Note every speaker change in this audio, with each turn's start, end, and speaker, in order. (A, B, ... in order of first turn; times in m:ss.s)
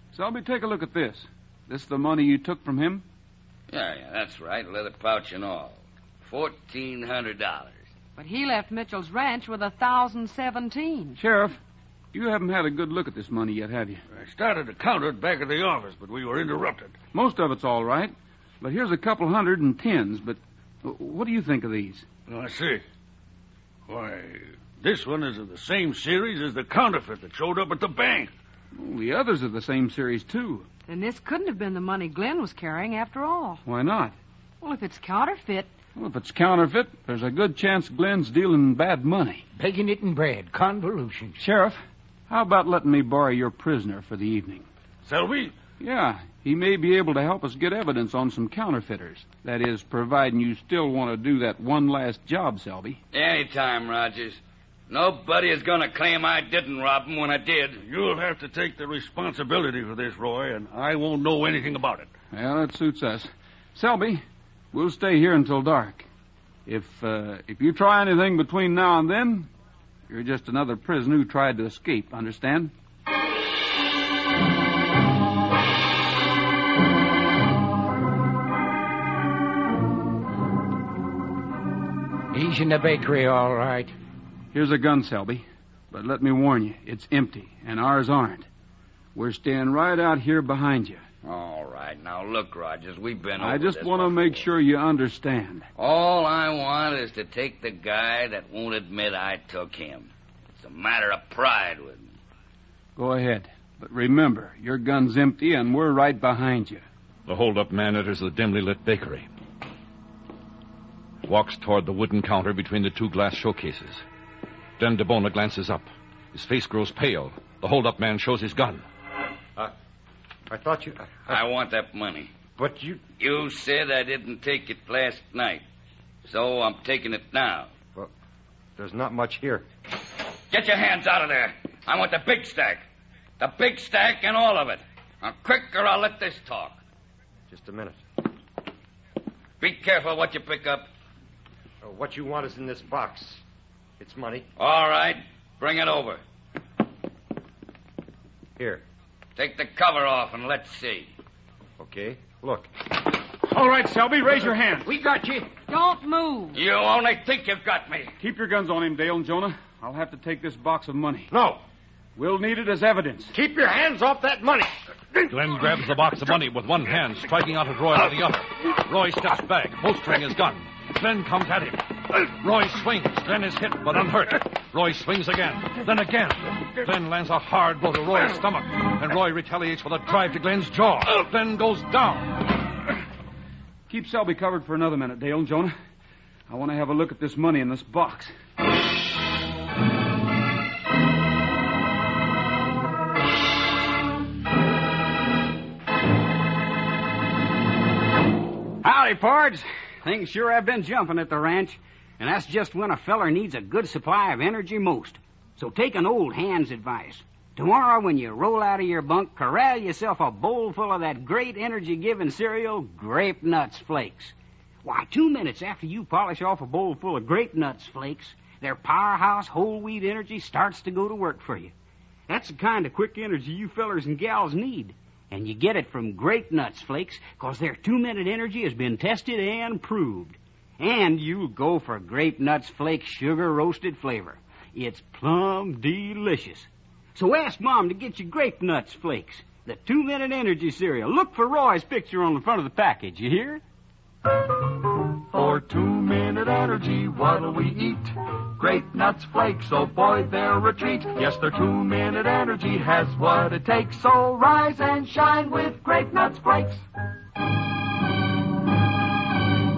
0:00.1-0:03.0 A
0:03.7-0:07.8 B
0:08.2-0:11.2 C
0:11.2-0:11.6 A
0:12.1-0:14.0 A
0:14.1-0:17.0 D
0:17.1-0:22.0 A
0:22.3-0:22.8 D
0:23.9-0:28.3 D
0:28.7-0:30.7 A
0:30.9-0:33.6 C
0:33.6-0:34.1 A
0:34.6-0:35.7 C
0:36.0-0:39.4 A
0:39.5-0:41.4 E
0:41.4-0:44.6 A
0:45.0-0:45.5 D
0:45.8-0:53.0 A
0:53.1-0:57.8 B
0:57.8-1:02.1 D
1:02.3-1:06.1 A
1:06.6-1:09.5 A
1:10.1-1:12.7 A
1:22.3-1:23.9 E
1:24.5-1:28.5 A
1:29.1-1:31.0 A
1:31.2-1:34.4 B
1:33.4-1:35.6 A
1:35.8-1:42.1 B
1:43.0-1:46.8 A
1:47.2-1:49.3 F
1:51.2-1:54.0 F
1:54.8-1:58.8 F
2:00.5-2:01.3 G
2:01.3-2:02.3 B
2:02.6-2:03.0 G
2:03.2-2:05.6 B
2:06.2-2:07.7 B
2:08.8-2:09.6 G
2:10.5-2:12.8 B
2:13.4-2:16.8 B
2:17.5-2:18.0 G
2:19.6-2:20.9 B
2:21.8-2:23.4 G
2:24.0-2:24.4 G
2:24.6-2:26.2 B
2:29.4-2:31.1 B
2:31.8-2:32.7 G
2:33.5-2:34.9 A
2:34.8-2:35.5 E
2:35.7-2:36.6 C
2:36.5-2:38.1 B
2:38.2-2:41.3 A
2:41.3-2:41.6 G
2:42.2-2:43.3 A
2:43.3-2:44.7 G
2:45.3-3:02.4 F
3:03.9-3:05.7 A
3:06.5-3:08.3 A
3:18.8-3:41.7 H
3:42.3-4:03.6 H
4:05.3-4:16.8 I